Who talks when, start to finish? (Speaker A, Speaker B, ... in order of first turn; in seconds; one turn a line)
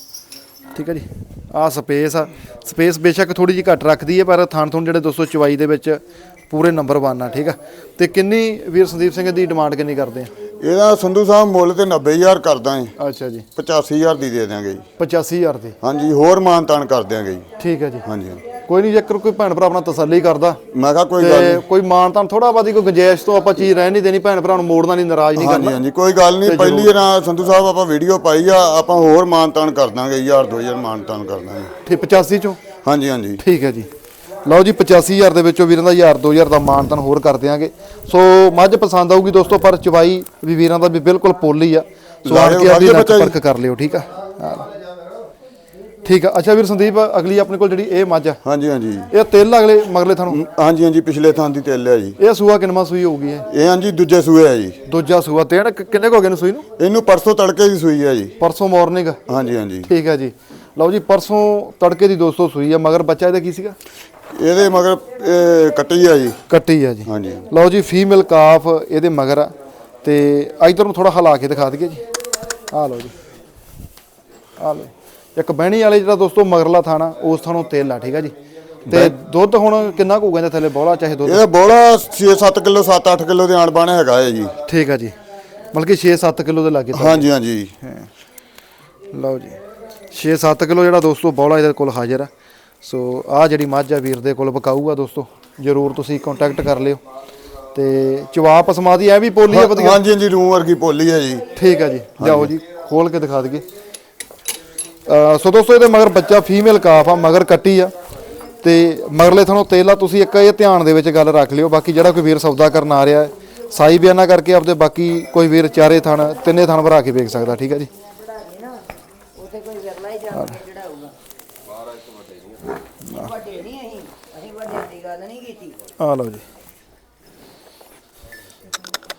Speaker A: 0.8-10.3
Speaker B: 10.6-12.9
Speaker A: 13.0-13.5
Speaker B: 13.6-14.8
Speaker A: 15.0-15.8
Speaker B: 15.8-17.5
Speaker A: 17.6-20.6
Speaker B: 18.0-18.4
Speaker B: 20.7-21.6
Speaker A: 21.2-25.8
Speaker B: 25.4-31.7
Speaker A: 26.4-26.9
Speaker A: 31.9-32.6
Speaker B: 32.8-33.4
Speaker A: 33.4-33.9
Speaker A: 34.5-44.7
Speaker B: 42.3-43.4
Speaker A: 46.0-48.4
Speaker B: 48.4-49.1
Speaker A: 49.1-50.4
Speaker B: 50.3-52.2
Speaker A: 52.2-53.5
Speaker B: 53.5-54.8
Speaker A: 54.9-56.7
Speaker B: 56.8-58.4
Speaker A: 58.4-59.2
Speaker B: 59.3-59.9
Speaker A: 59.9-63.8
Speaker B: 64.3-66.4
Speaker A: 66.5-69.5
Speaker B: 67.1-67.5
Speaker A: 70.0-72.0
Speaker A: 72.7-73.1
Speaker A: 74.6-78.3
Speaker B: 78.9-79.1
Speaker A: 78.9-81.4
Speaker B: 81.2-84.6
Speaker A: 84.7-85.2
Speaker A: 85.7-87.3
Speaker B: 86.9-87.8
Speaker A: 89.1-89.6
Speaker A: 90.1-92.3
Speaker A: 92.8-97.0
Speaker A: 97.7-100.0
Speaker B: 99.5-101.5
Speaker A: 101.5-103.6
Speaker B: 102.2-102.5
Speaker A: 105.1-107.9
Speaker A: 108.6-117.9
Speaker C: 118.5-118.8
Speaker C: 119.4-121.1
Speaker A: 120.3-120.6
Speaker A: 123.0-123.4
Speaker C: 123.4-125.8
Speaker A: 126.0-126.5